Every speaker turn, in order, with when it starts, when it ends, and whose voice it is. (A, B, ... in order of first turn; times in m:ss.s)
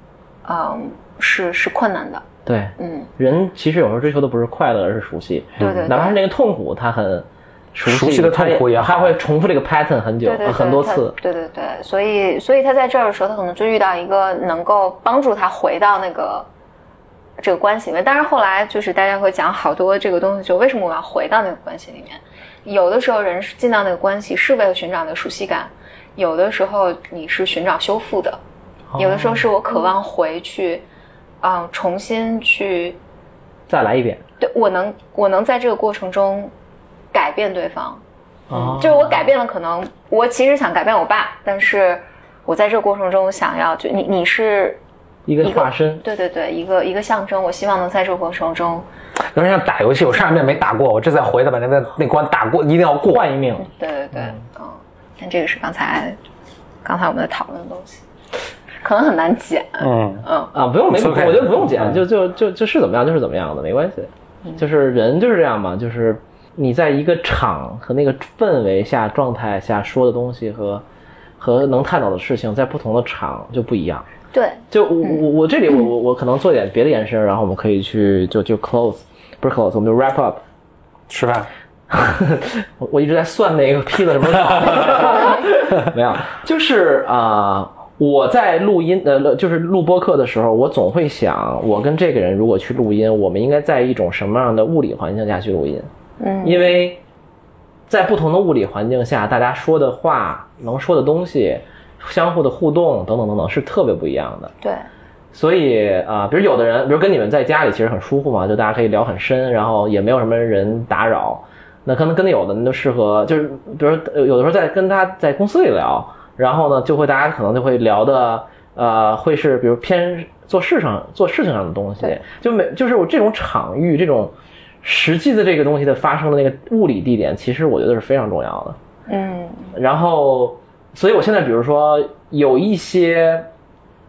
0:00.4-0:02.3 A
0:02.5-0:11.2 B
0:02.8-0:03.1 A
0:05.6-0:06.2 A
0:05.6-0:05.9 C
0:07.9-0:09.2 C
0:10.2-0:16.5 A
0:17.4-0:28.4 A
0:28.9-0:29.5 B
0:29.0-0:30.8 A
0:31.4-0:33.0 A
0:33.7-0:34.2 B
0:34.4-0:36.5 A
0:37.1-0:38.0 A
0:38.5-0:39.2 B
0:38.5-0:44.8 A
0:45.3-0:46.0 B
0:45.4-0:48.9 A
0:49.4-0:53.3 C
0:53.1-0:53.7 B
0:53.6-0:56.2 A
0:56.8-0:58.0 A
0:58.8-1:00.5 A
0:59.8-1:00.2 C
1:00.5-1:10.8 B
1:00.9-1:02.0 C
1:11.4-1:14.1 B
1:14.3-1:15.2 A
1:14.7-1:20.4 B
1:21.1-1:21.5 C
1:21.9-1:35.9 B
1:36.2-1:36.8 A
1:36.4-1:37.0 B
1:37.9-1:44.5 B
1:45.3-2:04.3 B
2:04.8-2:08.8 B
2:09.1-2:09.7 A
2:09.7-2:13.5 B